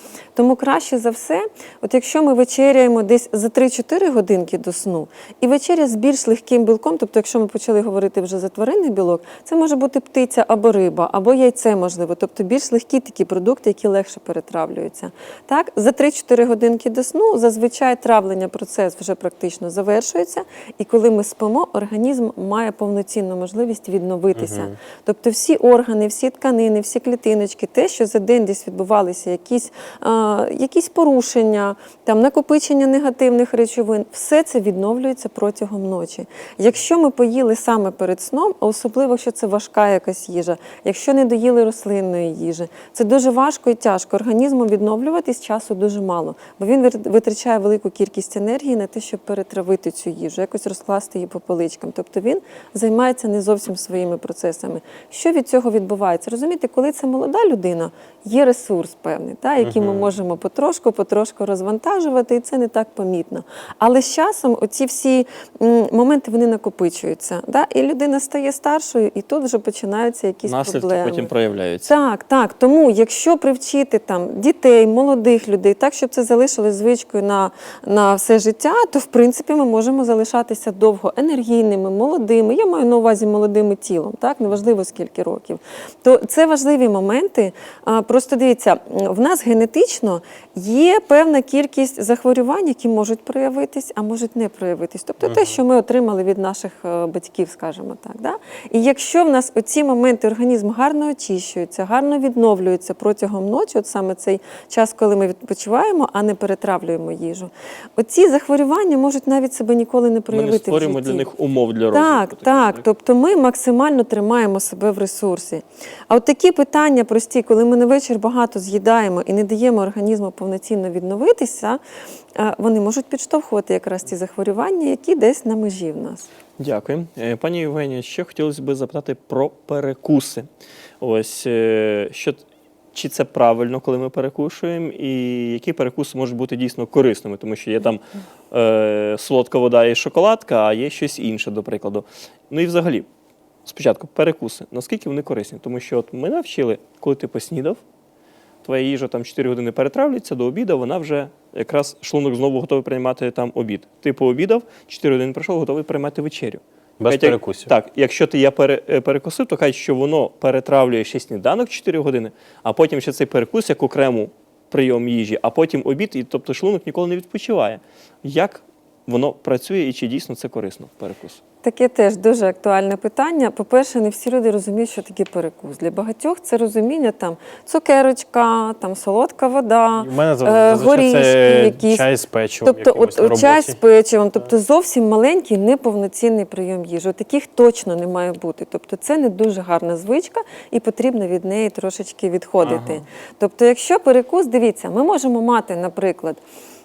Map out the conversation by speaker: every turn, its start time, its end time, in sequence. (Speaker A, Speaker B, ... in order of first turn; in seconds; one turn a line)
Speaker A: 0.3-71.3
Speaker B: 24.4-24.7
Speaker B: 59.6-60.1
Speaker C: 70.4-71.9
Speaker A: 71.8-111.3
Speaker B: 95.2-95.5
Speaker C: 110.3-112.8
Speaker A: 111.9-121.8
Speaker A: 122.3-126.3
Speaker C: 126.6-130.4
Speaker C: 131.0-143.1
Speaker C: 143.7-147.8
Speaker C: 148.6-171.4
Speaker B: 157.0-157.7
Speaker A: 171.6-182.1
Speaker B: 179.9-183.8
Speaker A: 182.6-196.4
Speaker C: 192.6-193.0